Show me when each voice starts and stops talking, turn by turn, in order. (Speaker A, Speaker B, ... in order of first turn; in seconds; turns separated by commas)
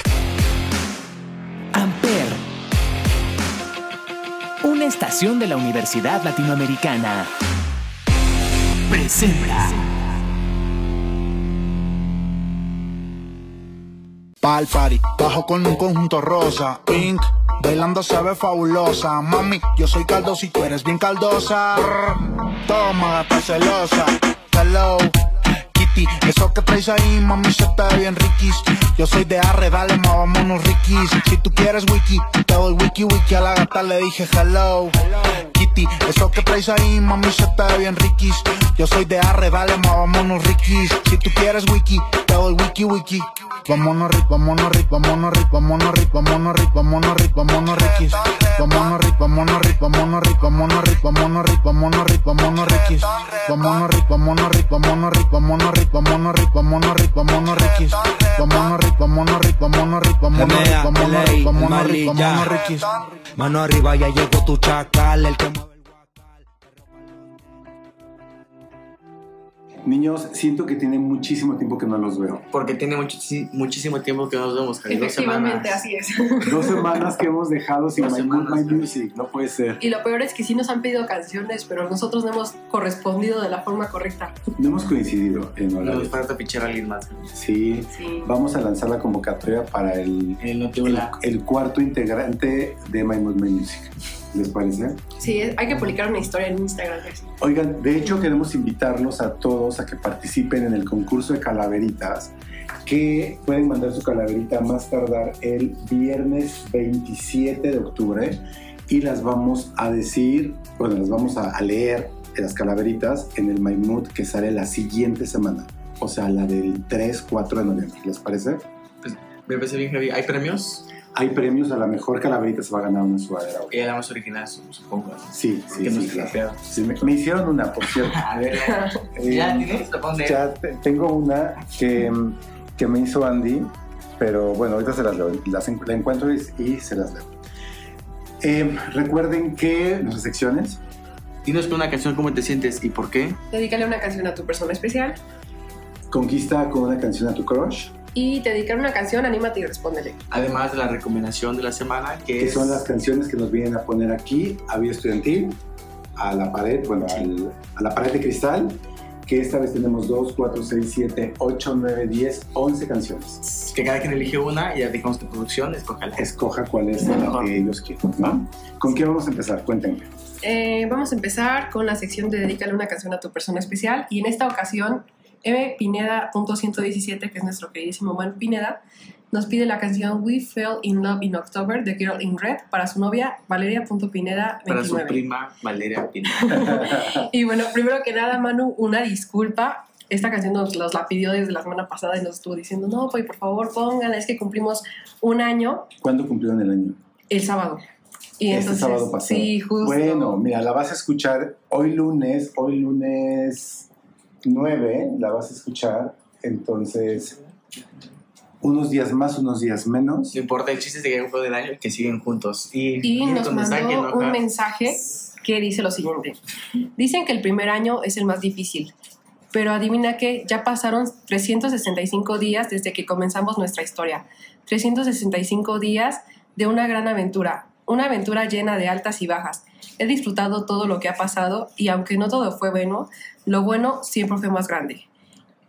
Speaker A: 1.7-2.4, Speaker A: 4.6-7.3, Speaker A: 8.9-9.8, Speaker B: 14.4-25.1, Speaker B: 25.7-63.4, Speaker C: 60.4-62.5, Speaker C: 63.4-65.4, Speaker D: 69.8-72.5, Speaker E: 72.5-75.8, Speaker F: 74.9-76.9, Speaker D: 76.4-79.8, Speaker E: 78.0-78.9, Speaker F: 79.8-84.4, Speaker D: 84.6-86.2, Speaker E: 85.8-87.3, Speaker D: 87.3-95.0, Speaker F: 87.9-88.3, Speaker E: 90.4-91.1, Speaker F: 95.2-97.3, Speaker D: 97.4-102.3, Speaker D: 102.8-118.7, Speaker E: 119.0-120.8, Speaker D: 121.1-123.8, Speaker E: 123.7-126.6, Speaker D: 125.3-128.2, Speaker E: 128.0-130.4, Speaker F: 128.5-129.0, Speaker D: 129.2-137.3, Speaker D: 138.4-140.8, Speaker E: 141.4-143.4, Speaker F: 143.5-145.2, Speaker D: 146.1-147.9, Speaker F: 148.1-150.2, Speaker E: 150.3-152.8, Speaker D: 152.4-155.6, Speaker D: 156.2-163.4, Speaker E: 163.4-166.3, Speaker D: 166.2-170.1, Speaker E: 167.2-167.5, Speaker F: 170.4-178.8, Speaker F: 179.3-185.2, Speaker E: 184.7-186.8, Speaker F: 186.4-195.9, Speaker D: 186.5-187.2, Speaker D: 196.0-197.0, Speaker F: 197.3-197.8, Speaker F: 198.4-200.4, Speaker D: 198.5-203.9, Speaker D: 204.4-207.3, Speaker D: 208.6-210.3, Speaker E: 210.3-214.4, Speaker F: 213.0-216.4, Speaker F: 216.9-218.9, Speaker F: 219.5-235.1